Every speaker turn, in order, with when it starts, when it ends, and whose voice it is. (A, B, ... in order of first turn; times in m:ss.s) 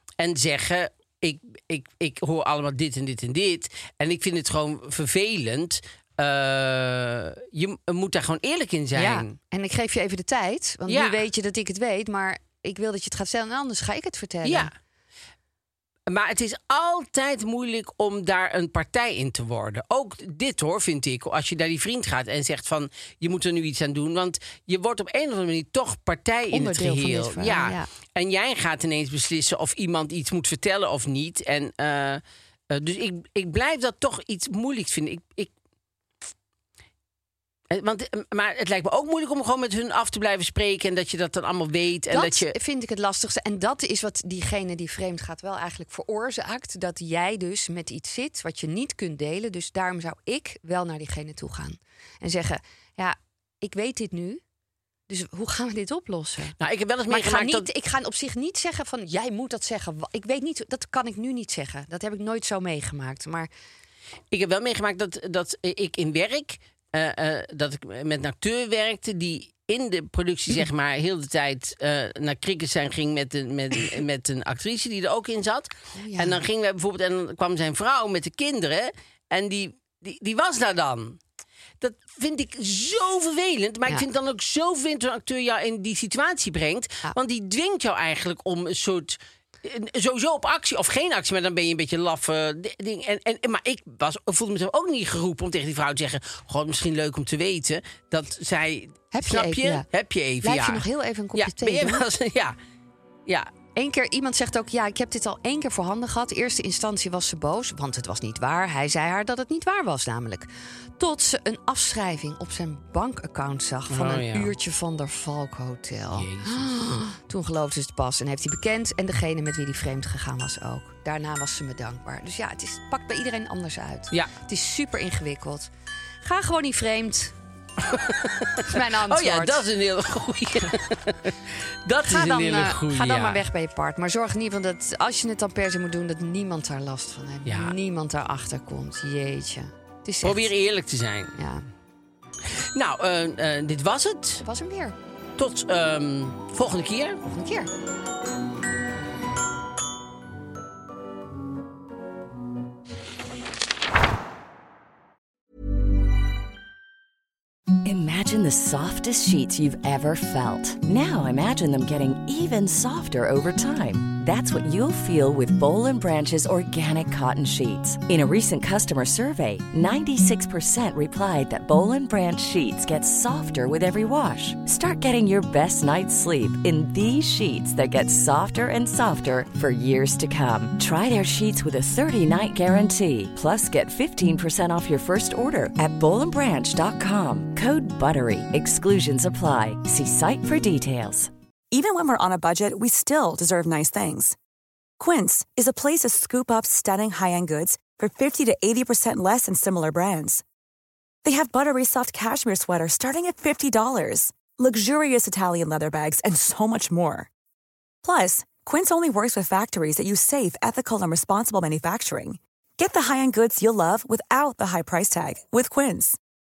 0:00.2-0:09.4 A
0:08.9-0:14.7 B
0:10.9-0:11.2 A
0:14.4-0:14.7 A
0:16.1-0:35.5 A
0:26.5-0:27.9 B
0:37.7-0:42.5 A
0:42.1-0:54.4 B
0:55.1-0:56.5 B
0:56.6-0:57.7 A
0:57.1-1:03.5 B
1:04.3-1:21.2 A
1:15.9-1:16.4 B
1:21.8-1:42.6 A
1:39.1-1:39.8 B
1:40.4-1:42.0 B
1:43.7-2:05.7 B
1:53.9-1:54.5 A
1:56.1-1:57.0 A
2:06.2-2:07.3 B
2:07.8-2:13.4 A
2:08.6-2:09.6 B
2:12.0-2:20.5 B
2:17.4-2:17.7 A
2:20.2-2:21.3 A
2:21.4-2:21.6 B
2:22.5-2:24.4 A
2:24.4-2:25.0 B
2:25.4-2:27.2 A
2:27.2-2:27.7 B
2:37.8-3:11.3 C
3:11.7-3:14.4 D
3:15.0-3:20.4 D
3:21.2-3:27.3 D
3:28.0-3:36.2 D